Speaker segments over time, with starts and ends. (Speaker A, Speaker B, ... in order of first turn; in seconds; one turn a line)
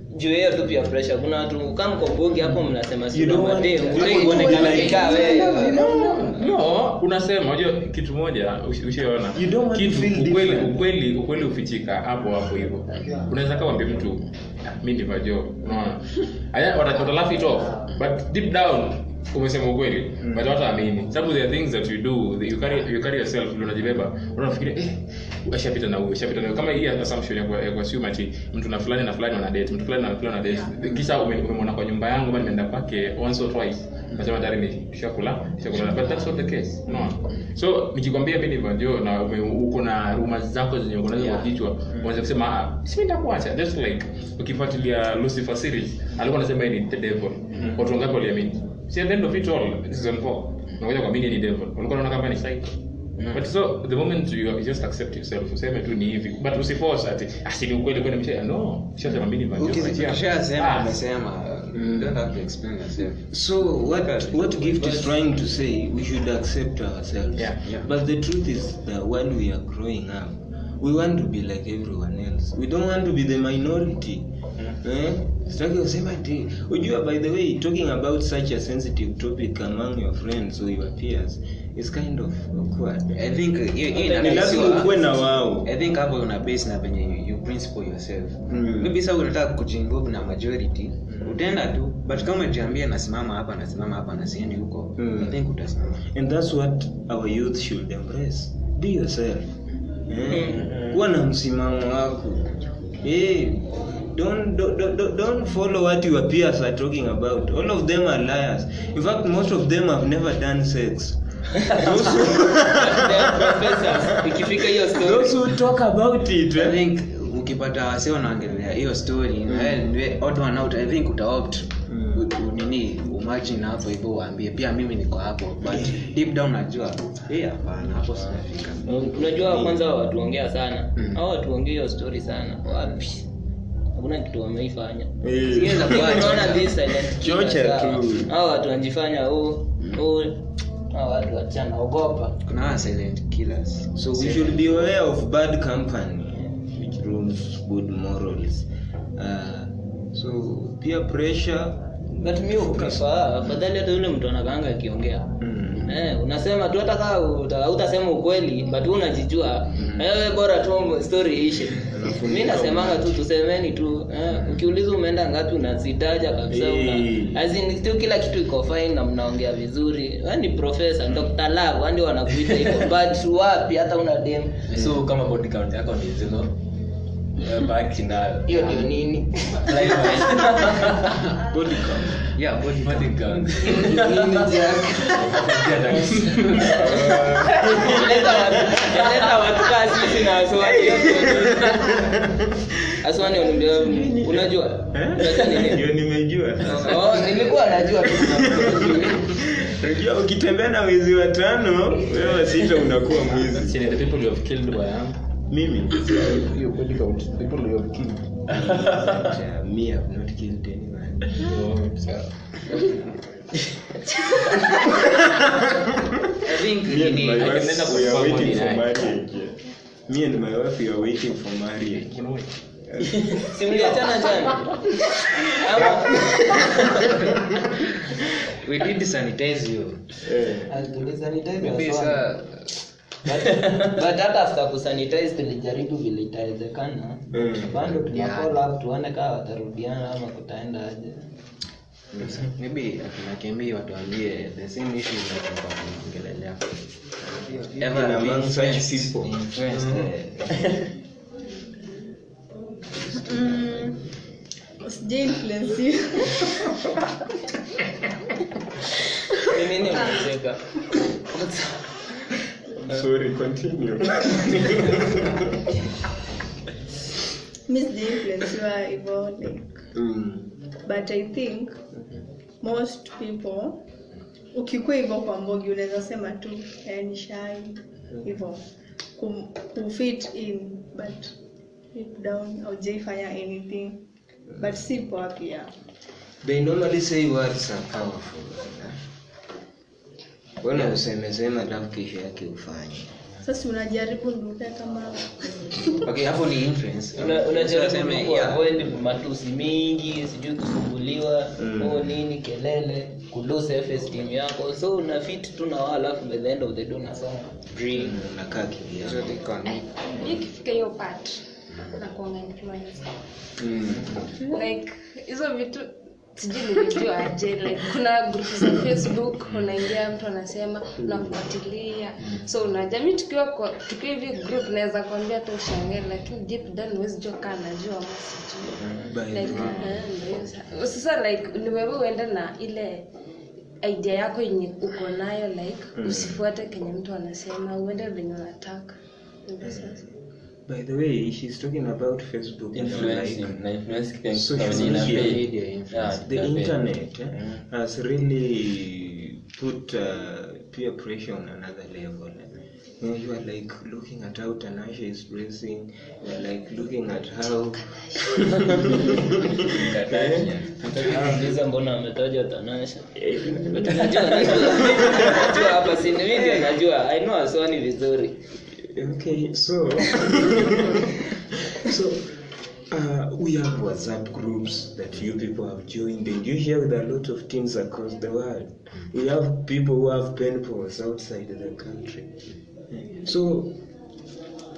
Speaker A: 0.1-5.8
Speaker B: 3.1-5.8
Speaker C: 4.0-6.4
Speaker D: 5.7-61.0
Speaker B: 9.3-10.8
Speaker C: 41.2-41.5
Speaker C: 59.5-65.0
Speaker B: 61.8-62.1
Speaker B: 63.3-83.3
Speaker C: 83.1-96.1
Speaker B: 84.0-85.7
Speaker A: 84.0-84.9
Speaker B: 88.5-89.0
Speaker B: 91.1-91.4
Speaker B: 95.0-95.3
Speaker B: 96.1-116.8
Speaker A: 100.3-100.6
Speaker E: 100.6-101.0
Speaker A: 112.6-115.4
Speaker C: 116.5-129.7
Speaker B: 119.5-119.8
Speaker B: 121.9-122.2
Speaker B: 125.7-126.0
Speaker A: 128.9-133.3
Speaker A: 133.9-135.2
Speaker B: 135.2-138.3
Speaker C: 135.4-136.7
Speaker A: 135.8-142.4
Speaker C: 142.4-144.6
Speaker B: 144.0-153.1
Speaker A: 152.2-155.3
Speaker B: 155.4-156.0
Speaker A: 155.9-174.7
Speaker B: 161.9-163.2
Speaker B: 166.5-167.4
Speaker E: 174.7-176.6
Speaker E: 177.4-178.7
Speaker A: 178.5-180.8
Speaker E: 179.6-181.2
Speaker B: 181.4-182.3
Speaker C: 182.3-185.2
Speaker E: 182.8-186.9
Speaker B: 184.1-184.8
Speaker B: 186.3-189.0
Speaker A: 186.6-187.0
Speaker A: 187.7-192.0
Speaker B: 190.6-192.5
Speaker A: 193.0-195.9
Speaker B: 193.7-203.8
Speaker A: 196.6-199.4
Speaker D: 203.5-205.3
Speaker B: 205.5-206.4
Speaker D: 206.0-208.8
Speaker B: 208.5-211.4
Speaker E: 208.7-209.1
Speaker D: 211.4-213.0
Speaker B: 214.8-215.6
Speaker B: 216.3-222.1
Speaker C: 216.4-218.0
Speaker D: 217.4-219.2
Speaker D: 222.0-222.5
Speaker B: 222.9-224.0
Speaker E: 223.1-223.4
Speaker A: 223.5-224.8
Speaker A: 225.5-226.7
Speaker C: 228.6-230.2
Speaker B: 230.2-230.7
Speaker A: 230.7-232.3
Speaker C: 231.6-232.7
Speaker A: 233.2-241.3
Speaker B: 237.3-238.0
Speaker C: 238.1-238.6
Speaker C: 242.1-246.8
Speaker B: 247.3-250.5
Speaker C: 247.8-250.1
Speaker F: 253.2-254.1
Speaker F: 254.8-256.6
Speaker A: 259.4-262.1
Speaker B: 262.8-265.6
Speaker F: 267.7-269.7
Speaker B: 269.9-270.5
Speaker F: 270.9-271.8
Speaker F: 272.6-273.9
Speaker F: 274.5-281.4
Speaker F: 281.9-284.0
Speaker F: 284.6-285.7
Speaker B: 286.4-289.0
Speaker B: 290.6-293.2
Speaker F: 293.4-296.0
Speaker C: 296.0-298.7
Speaker A: 297.1-307.5
Speaker B: 301.6-302.1
Speaker C: 307.7-308.2
Speaker B: 307.9-309.4
Speaker C: 309.0-310.2
Speaker G: 309.6-313.1
Speaker B: 313.6-314.3
Speaker G: 314.5-333.1
Speaker B: 328.8-330.1
Speaker G: 333.8-338.9
Speaker B: 335.9-336.4
Speaker G: 339.5-340.0
Speaker B: 339.6-340.1
Speaker B: 340.7-343.6
Speaker E: 342.7-347.6
Speaker B: 344.3-345.4
Speaker C: 344.6-346.2
Speaker B: 346.2-361.5
Speaker E: 359.6-361.2
Speaker A: 360.9-368.4
Speaker B: 363.2-365.7
Speaker B: 366.3-366.7
Speaker B: 368.8-383.8